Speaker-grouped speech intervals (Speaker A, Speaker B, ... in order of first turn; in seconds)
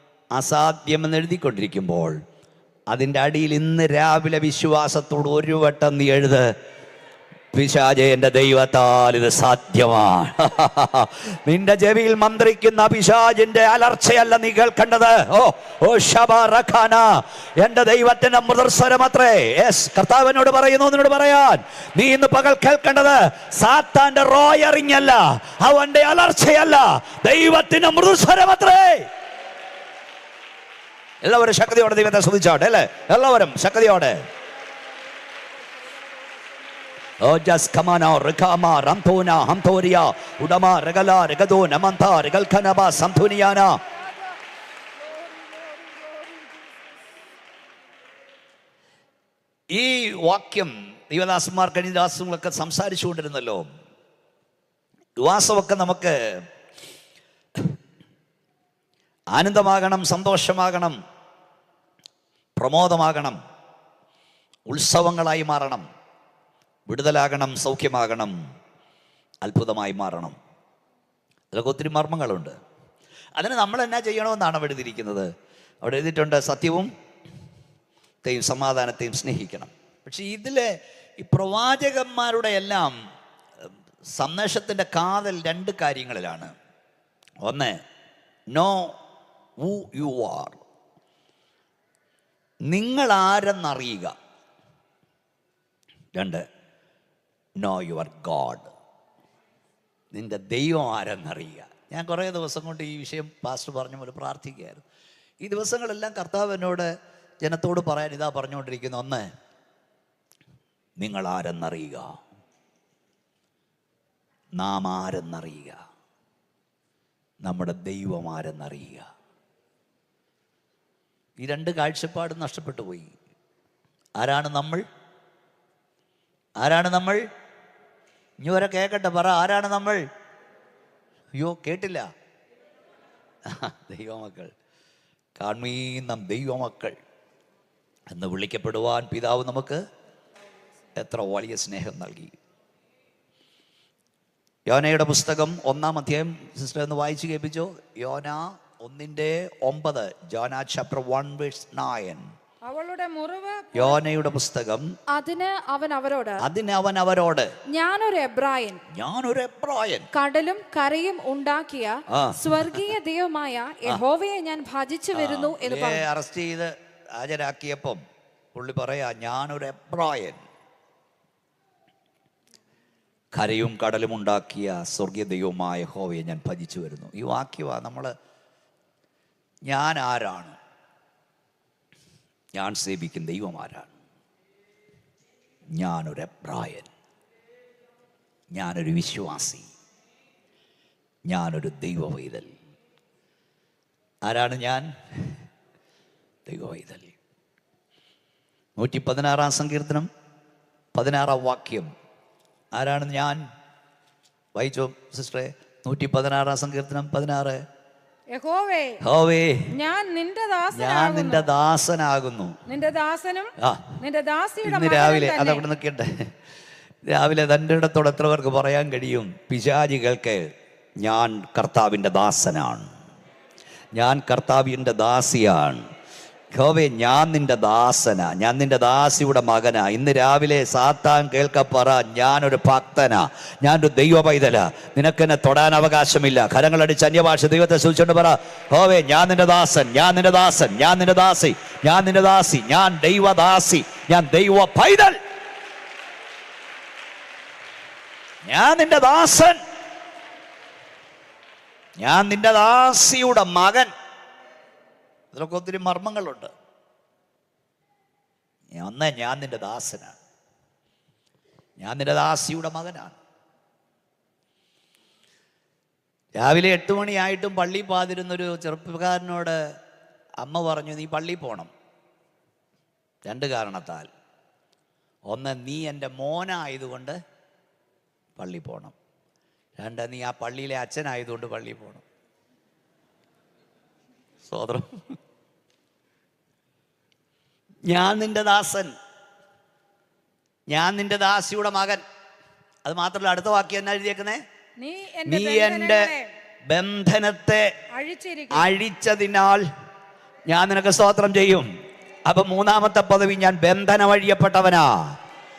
Speaker A: 0.3-2.1, 2.9-6.5, 7.5-29.1, 31.2-34.2, 37.2-43.8, 49.7-53.7, 55.2-56.4, 59.3-61.0, 62.6-63.4, 64.7-65.8, 66.9-68.4, 69.4-70.3, 71.5-72.6, 73.3-75.3, 75.8-76.9, 78.2-82.9, 84.1-86.5, 87.4-87.8, 88.5-89.0, 89.6-90.6, 92.7-94.1, 96.1-96.4, 97.6-98.7, 100.1-104.8, 105.4-109.2, 111.0-112.2, 114.5-115.8, 117.4-119.1, 121.4-123.1, 124.2-124.8, 126.6-127.2, 128.4-130.0, 131.3-132.1, 133.4-134.5, 135.4-137.0, 138.1-139.8, 140.9-142.3, 144.7-152.2, 153.7-154.9, 156.4-157.5, 158.9-160.1, 162.1-162.9, 165.1-168.0, 168.5-170.4, 173.3-178.1, 179.7-180.6, 182.5-183.9, 185.7-186.9, 188.5-189.7, 191.3-192.5, 194.2-195.4, 196.5-197.1, 198.8-200.1, 200.9-201.9, 202.7-203.4, 204.6-207.6, 209.0-209.7, 210.7-212.6, 213.6-213.9, 214.6-216.3, 217.1-220.5, 221.0-222.9, 223.9-225.8, 226.5-245.2, 248.4-249.6, 252.0-253.9, 255.3-256.5, 258.7-260.2, 261.8-263.2, 266.4-269.6, 270.4-271.7, 273.2-274.1, 275.3-277.2, 278.4-278.9, 279.8-282.0, 284.4-285.2, 287.9-288.9, 290.7-292.0, 292.8-294.4, 295.3-296.1, 296.7-297.7, 298.5-299.6, 300.5-301.7, 302.3-305.1
Speaker B: 34.6-37.2, 44.0-44.4, 44.9-47.0, 152.7-154.0, 208.3-209.0, 209.7-211.5, 212.7-215.6, 294.8-296.3, 297.9-298.7
Speaker C: 155.1-156.4, 157.7-158.8, 160.1-166.0